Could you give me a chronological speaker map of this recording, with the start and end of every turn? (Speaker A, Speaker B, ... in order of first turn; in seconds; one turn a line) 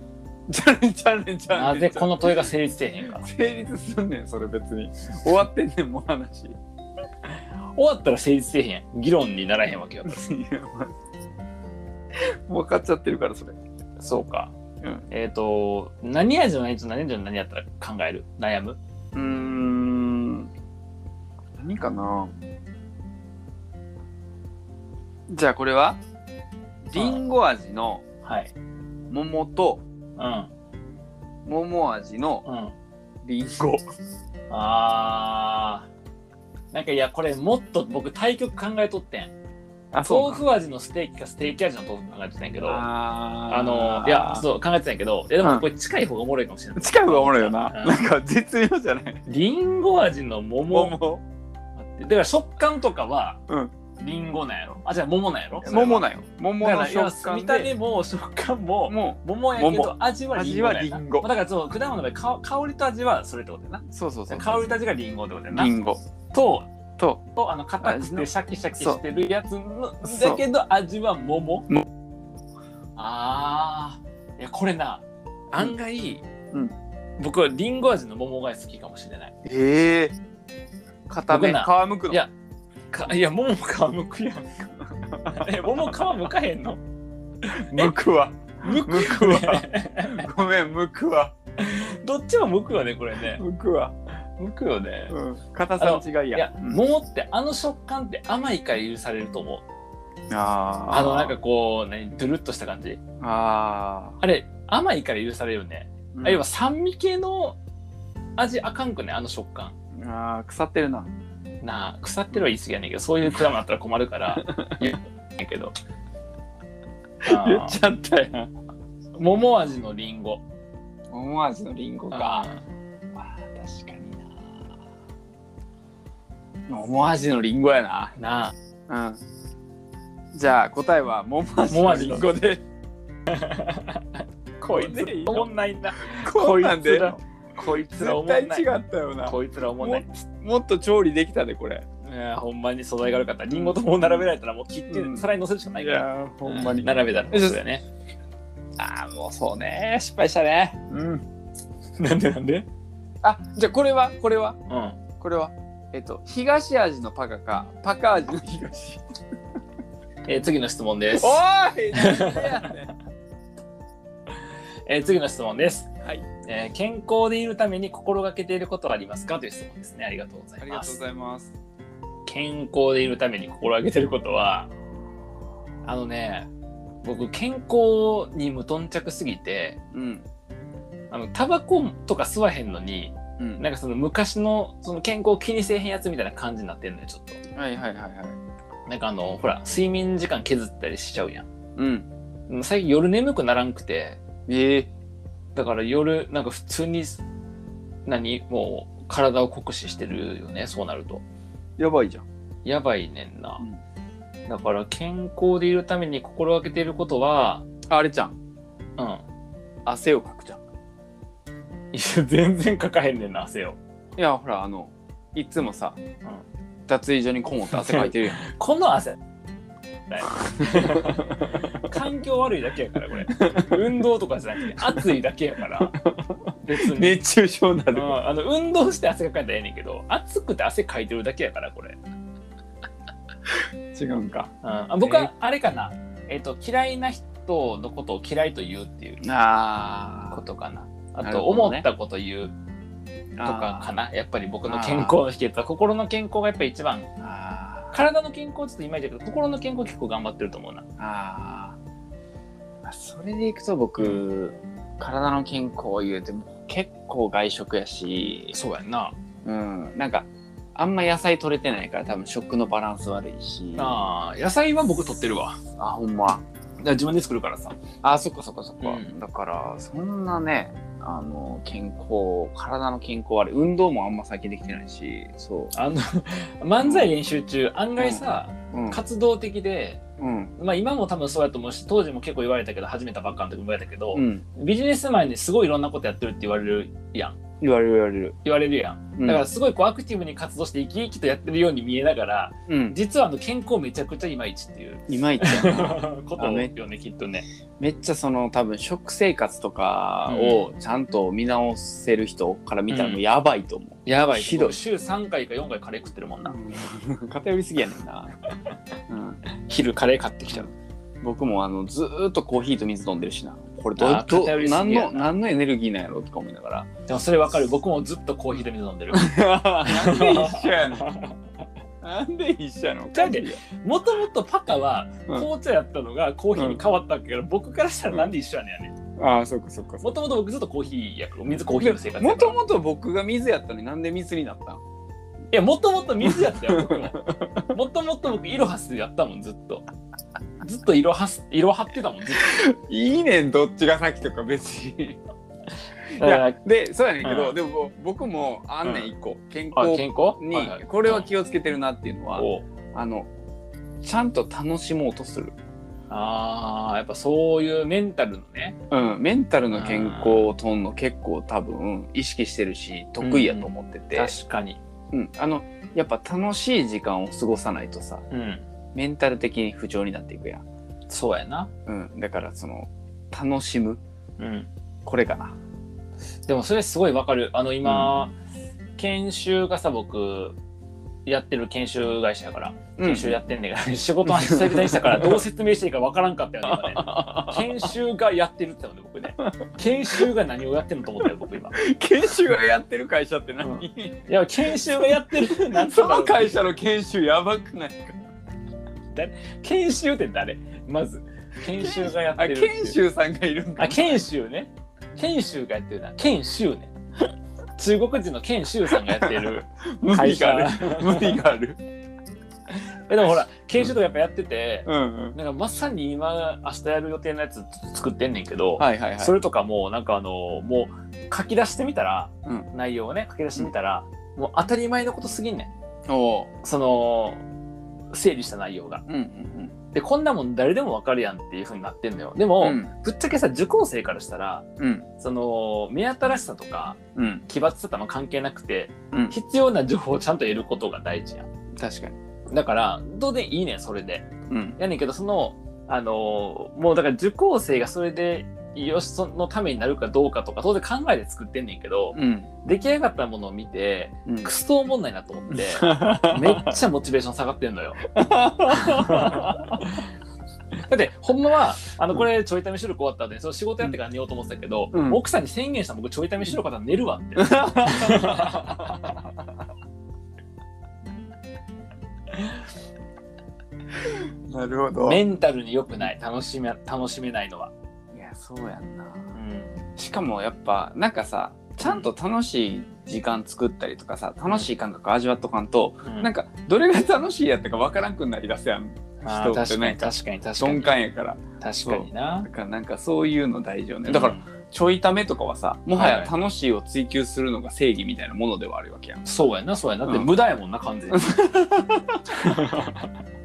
Speaker A: 0.5-2.4
Speaker B: 1.5-3.3
Speaker A: 3.2-6.6
Speaker B: 7.8-10.2
Speaker A: 10.0-10.9
Speaker A: 12.5-13.6
Speaker B: 14.0-14.5
Speaker B: 15.1-18.8
Speaker A: 19.1-20.5
Speaker A: 21.6-22.3
Speaker A: 25.3-26.0
Speaker A: 26.9-28.0
Speaker B: 26.9-27.2
Speaker B: 28.2-28.5
Speaker A: 29.1-29.8
Speaker B: 30.2-30.5
Speaker A: 31.4-32.4
Speaker B: 32.4-32.8
Speaker A: 33.2-33.8
Speaker B: 34.5-35.9
Speaker B: 36.7-39.3
Speaker A: 39.9-40.4
Speaker B: 40.0-42.8
Speaker A: 42.6-44.5
Speaker B: 43.5-48.0
Speaker A: 45.4-45.7
Speaker A: 46.8-49.2
Speaker B: 49.3-51.0
Speaker A: 50.7-51.2
Speaker B: 51.8-53.4
Speaker B: 54.0-56.1
Speaker A: 55.6-57.7
Speaker B: 56.6-65.7
Speaker A: 58.9-61.3
Speaker A: 63.9-64.7
Speaker A: 65.5-66.0
Speaker B: 66.3-66.7
Speaker B: 67.3-71.7
Speaker A: 67.8-69.0
Speaker A: 70.0-70.4
Speaker B: 73.0-76.2
Speaker B: 77.2-79.3
Speaker A: 79.4-80.2
Speaker A: 81.1-82.2
Speaker B: 81.3-82.3
Speaker B: 82.9-84.7
Speaker A: 85.0-85.6
Speaker B: 85.3-86.8
Speaker B: 87.5-87.9
Speaker A: 87.6-91.3
Speaker B: 88.6-90.3
Speaker B: 91.6-93.4
Speaker A: 93.3-93.9
Speaker B: 94.4-95.2
Speaker A: 95.1-96.8
Speaker B: 95.8-99.6
Speaker A: 100.3-101.4
Speaker B: 100.9-103.0
Speaker A: 103.2-104.2
Speaker B: 104.2-107.6
Speaker A: 106.1-106.4
Speaker B: 108.4-109.7
Speaker A: 110.0-111.1
Speaker B: 111.6-115.7
Speaker A: 114.3-115.0
Speaker A: 117.2-118.5
Speaker B: 117.2-117.8
Speaker B: 119.1-120.4
Speaker A: 121.1-122.5
Speaker B: 122.1-122.6
Speaker A: 123.2-124.4
Speaker A: 126.7-128.1
Speaker B: 128.2-128.5
Speaker A: 128.9-129.2
Speaker A: 130.3-132.6
Speaker B: 131.7-132.3
Speaker B: 133.3-138.7
Speaker A: 134.6-137.2
Speaker A: 137.9-141.8
Speaker B: 139.2-140.0
Speaker B: 142.0-147.8
Speaker A: 143.5-144.2
Speaker A: 144.9-145.2
Speaker A: 145.8-147.6
Speaker A: 148.8-151.2
Speaker B: 152.0-152.7
Speaker A: 153.2-154.6
Speaker B: 154.7-155.0
Speaker A: 155.2-159.2
Speaker B: 160.2-161.4
Speaker A: 161.1-162.9
Speaker B: 161.9-162.7
Speaker B: 164.9-165.9
Speaker B: 166.4-171.0
Speaker A: 170.6-171.5
Speaker B: 172.2-174.7
Speaker B: 175.8-176.5
Speaker B: 177.0-179.8
Speaker A: 179.9-180.2
Speaker B: 181.1-187.4
Speaker A: 183.4-183.6
Speaker A: 187.5-188.4
Speaker B: 188.9-191.5
Speaker A: 191.8-192.1
Speaker B: 192.5-194.2
Speaker A: 194.5-194.9
Speaker B: 195.5-197.2
Speaker B: 198.1-201.2
Speaker A: 201.8-202.2
Speaker B: 202.6-203.6
Speaker B: 204.5-207.6
Speaker A: 207.9-208.3
Speaker A: 209.8-210.6
Speaker B: 211.9-213.8
Speaker A: 214.2-216.0
Speaker A: 216.9-218.4
Speaker B: 217.7-219.2
Speaker B: 220.1-225.9
Speaker A: 220.4-221.7
Speaker A: 223.3-223.9
Speaker A: 224.7-225.1
Speaker A: 225.8-228.2
Speaker B: 226.6-227.2
Speaker B: 227.9-232.0
Speaker A: 233.9-234.5
Speaker B: 234.6-239.2
Speaker A: 235.0-235.3
Speaker A: 239.2-240.4
Speaker B: 240.3-242.5
Speaker A: 241.2-241.9
Speaker A: 243.4-243.9
Speaker B: 243.4-247.1
Speaker A: 244.6-245.2
Speaker A: 247.2-247.9
Speaker B: 247.9-250.8
Speaker A: 251.0-251.8
Speaker A: 252.8-258.5
Speaker B: 254.0-254.2
Speaker B: 258.5-259.1
Speaker A: 259.4-264.1
Speaker B: 263.8-265.6
Speaker A: 265.8-266.4
Speaker B: 266.8-267.8
Speaker A: 268.0-275.7
Speaker B: 268.8-269.1
Speaker B: 275.7-280.0
Speaker A: 276.8-277.1
Speaker A: 278.0-279.0
Speaker A: 280.2-280.5
Speaker B: 280.6-287.4
Speaker A: 284.1-284.4
Speaker A: 287.6-288.4
Speaker B: 288.4-297.4
Speaker A: 289.2-289.4
Speaker A: 292.7-293.0
Speaker A: 295.1-296.7
Speaker A: 297.8-304.8
Speaker B: 300.3-300.6
Speaker B: 302.9-303.2
Speaker B: 304.0-306.6
Speaker A: 306.4-308.3
Speaker A: 309.1-309.4
Speaker B: 309.6-310.7
Speaker A: 310.4-310.7
Speaker A: 311.2-316.9
Speaker B: 314.0-315.3
Speaker B: 317.1-321.4
Speaker A: 319.1-321.1
Speaker A: 322.0-323.6
Speaker B: 323.1-328.9
Speaker A: 326.5-326.8
Speaker A: 329.2-330.1
Speaker B: 330.0-332.6
Speaker A: 331.6-334.8
Speaker B: 335.5-339.8
Speaker A: 336.2-337.7
Speaker B: 340.6-342.5
Speaker A: 342.3-345.2
Speaker A: 346.1-353.3
Speaker B: 346.2-346.6
Speaker B: 347.2-347.6
Speaker B: 349.8-351.3
Speaker B: 352.4-352.6
Speaker A: 354.0-355.5
Speaker B: 356.1-358.8
Speaker A: 358.9-364.3
Speaker B: 359.7-360.5
Speaker B: 363.2-364.8
Speaker A: 365.1-368.2
Speaker B: 368.3-368.6
Speaker A: 368.9-370.6
Speaker B: 371.1-371.7
Speaker A: 371.9-374.0
Speaker B: 374.4-374.7
Speaker A: 375.0-375.6
Speaker B: 376.5-378.3
Speaker A: 377.8-378.1
Speaker B: 379.0-380.6
Speaker B: 381.2-391.8
Speaker A: 383.0-383.4
Speaker A: 384.2-385.4
Speaker A: 386.7-387.9
Speaker A: 389.4-390.2
Speaker A: 391.8-398.2
Speaker B: 393.6-396.6
Speaker B: 399.1-403.0
Speaker A: 401.7-404.2
Speaker B: 403.8-406.9
Speaker B: 407.8-411.4
Speaker A: 408.9-411.8
Speaker B: 413.1-425.7
Speaker A: 414.9-415.4
Speaker A: 418.8-419.4
Speaker A: 426.1-426.5
Speaker B: 426.6-427.4
Speaker B: 428.1-429.0
Speaker A: 429.1-429.8
Speaker B: 429.9-434.6
Speaker A: 432.6-432.9
Speaker A: 434.8-435.1
Speaker B: 435.2-441.4
Speaker A: 437.1-437.4
Speaker A: 441.8-442.1
Speaker B: 442.5-458.1
Speaker A: 444.5-444.8
Speaker A: 452.1-452.5
Speaker A: 455.5-456.8
Speaker A: 458.1-459.9
Speaker B: 458.6-460.1
Speaker B: 460.9-469.1
Speaker A: 464.9-465.2
Speaker A: 467.4-468.8
Speaker A: 474.1-475.2
Speaker B: 475.0-477.7
Speaker A: 478.1-479.3
Speaker B: 479.3-479.8
Speaker A: 480.0-499.2
Speaker B: 481.8-482.1
Speaker B: 486.0-486.3
Speaker B: 489.2-490.9
Speaker B: 491.6-492.5
Speaker B: 494.1-494.4
Speaker B: 495.9-496.3
Speaker B: 499.2-501.5
Speaker A: 501.1-502.6
Speaker B: 502.3-503.1